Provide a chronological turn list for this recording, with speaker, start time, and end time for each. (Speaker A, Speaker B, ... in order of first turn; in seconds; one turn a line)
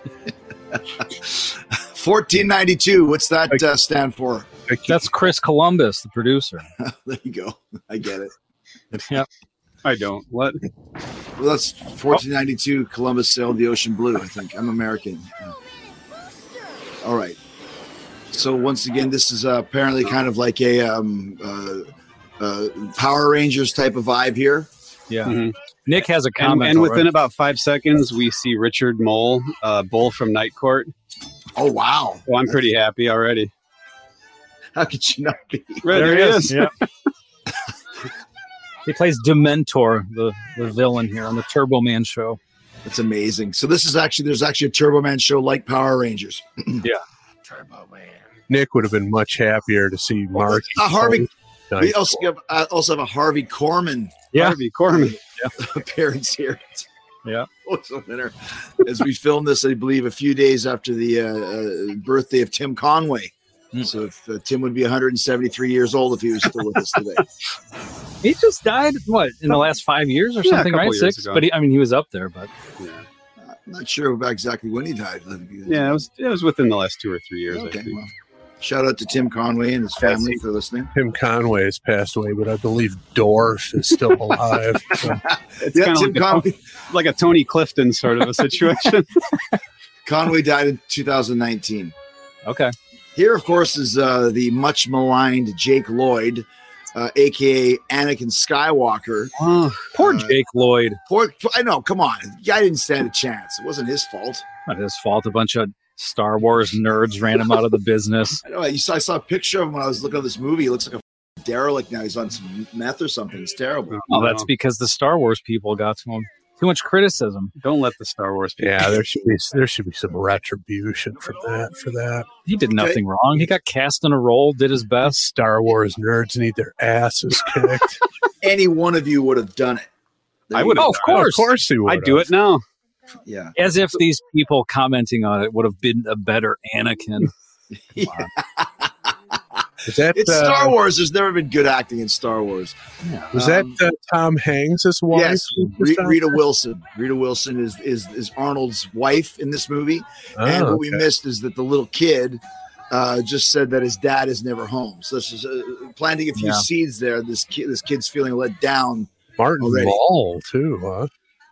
Speaker A: 0.7-4.5
Speaker B: 4.7-5.1
Speaker C: 4.9-6.7
Speaker A: 6.8-8.3
Speaker C: 8.9-9.3
Speaker D: 9.8-10.6
Speaker A: 11.4-15.5
Speaker A: 17.0-17.4
Speaker A: 18.3-24.7
Speaker C: 25.1-27.1
Speaker D: 25.2-25.5
Speaker D: 26.3-30.9
Speaker A: 31.6-32.2
Speaker D: 32.3-33.5
Speaker A: 34.7-36.1
Speaker D: 35.8-36.7
Speaker C: 35.9-36.7
Speaker C: 38.9-42.4
Speaker A: 42.8-46.8
Speaker B: 48.5-52.2
Speaker A: 50.4-51.3
Speaker A: 51.8-54.3
Speaker C: 54.3-54.6
Speaker D: 54.3-55.1
Speaker A: 54.9-56.9
Speaker A: 57.6-67.2
Speaker C: 68.2-72.5
Speaker D: 70.4-71.5
Speaker D: 72.8-73.0
Speaker A: 73.4-76.0
Speaker D: 75.7-78.0
Speaker A: 77.5-80.9
Speaker D: 80.0-80.4
Speaker B: 80.9-85.2
Speaker A: 85.3-86.5
Speaker D: 85.6-89.1
Speaker A: 90.0-91.9
Speaker C: 92.4-92.7
Speaker A: 93.2-99.3
Speaker D: 99.4-99.8
Speaker C: 99.9-101.0
Speaker A: 100.0-100.3
Speaker A: 101.1-104.4
Speaker C: 104.7-108.4
Speaker A: 108.4-114.0
Speaker D: 113.9-114.5
Speaker C: 114.1-117.5
Speaker D: 117.6-119.0
Speaker B: 118.6-122.3
Speaker C: 122.4-125.2
Speaker A: 122.7-123.0
Speaker B: 125.0-128.0
Speaker A: 128.4-129.9
Speaker A: 130.5-130.9
Speaker D: 130.5-132.6
Speaker C: 130.7-131.5
Speaker B: 131.1-132.3
Speaker A: 133.2-133.5
Speaker C: 133.5-137.3
Speaker A: 137.8-138.9
Speaker C: 138.0-138.3
Speaker B: 139.8-140.7
Speaker A: 140.1-142.8
Speaker C: 143.0-143.3
Speaker A: 143.3-143.8
Speaker B: 143.3-146.4
Speaker A: 145.1-160.0
Speaker B: 150.4-151.0
Speaker C: 156.3-156.6
Speaker B: 159.4-161.1